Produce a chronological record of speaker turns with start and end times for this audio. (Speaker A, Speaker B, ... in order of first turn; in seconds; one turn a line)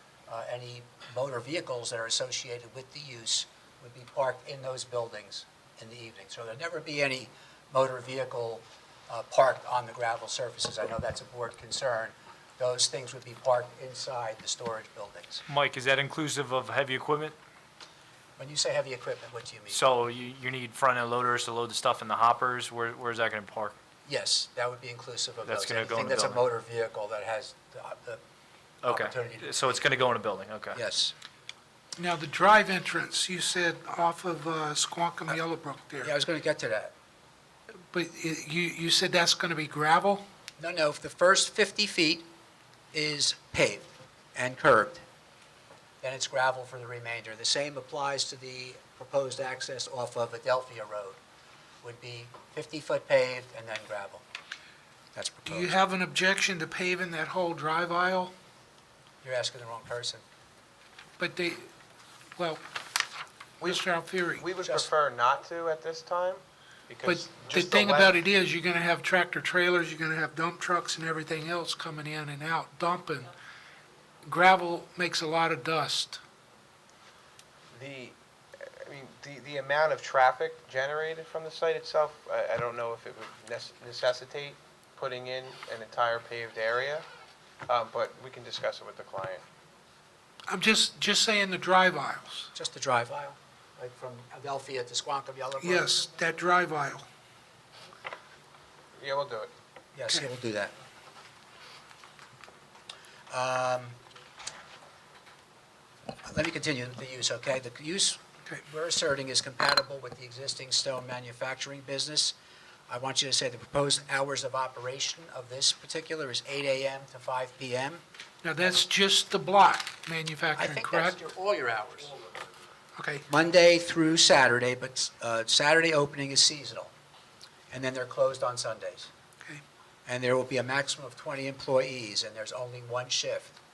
Speaker A: 0.3-15.4
Speaker B: 15.5-17.4
Speaker A: 18.4-19.8
Speaker B: 19.7-23.8
Speaker A: 24.1-28.2
Speaker B: 25.4-26.4
Speaker B: 28.8-30.8
Speaker A: 28.8-29.9
Speaker A: 30.7-31.1
Speaker C: 32.0-36.1
Speaker A: 36.0-36.9
Speaker C: 37.9-40.2
Speaker A: 40.6-42.3
Speaker A: 42.9-45.0
Speaker A: 46.0-51.2
Speaker A: 51.8-54.2
Speaker A: 55.1-55.8
Speaker C: 55.5-58.3
Speaker A: 59.2-60.2
Speaker C: 61.2-61.7
Speaker C: 62.4-62.6
Speaker C: 63.6-64.4
Speaker D: 64.4-68.2
Speaker A: 64.6-64.9
Speaker C: 67.0-73.3
Speaker C: 74.2-76.2
Speaker D: 77.7-87.0
Speaker D: 87.7-89.4
Speaker C: 90.5-92.5
Speaker A: 92.5-96.0
Speaker C: 95.6-97.0
Speaker D: 99.0-99.5
Speaker A: 99.9-100.7
Speaker A: 103.3-104.0
Speaker A: 106.2-112.3
Speaker A: 112.9-118.0
Speaker C: 118.4-121.2
Speaker A: 120.5-122.2
Speaker C: 123.0-123.2
Speaker A: 123.3-126.9
Speaker A: 127.7-129.1
Speaker A: 130.1-133.6